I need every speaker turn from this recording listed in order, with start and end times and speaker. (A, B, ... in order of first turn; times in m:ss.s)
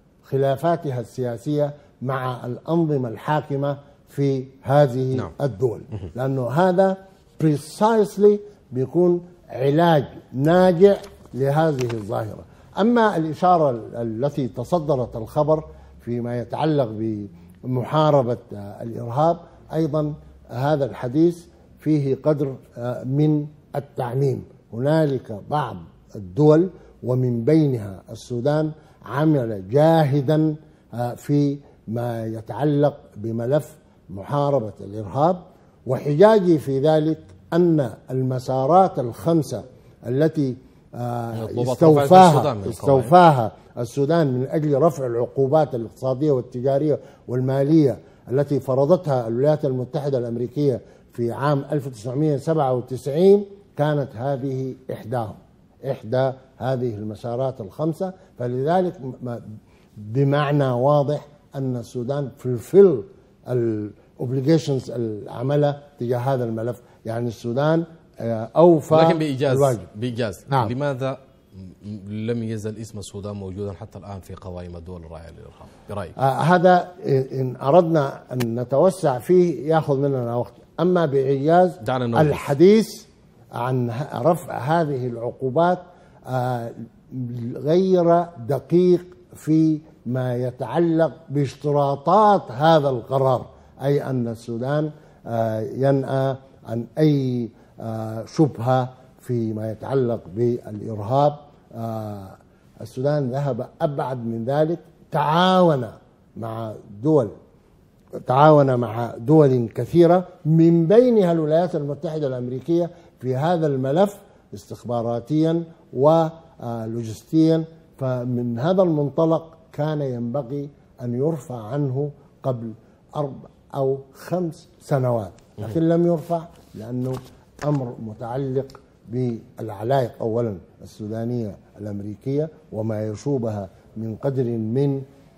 0:00.2-0:59.5 A
0:41.3-0:43.1 B
1:00.0-1:09.8 A
1:08.9-1:16.2 B
1:16.2-1:47.3 A
1:21.8-1:22.5 B
1:48.3-2:15.0 A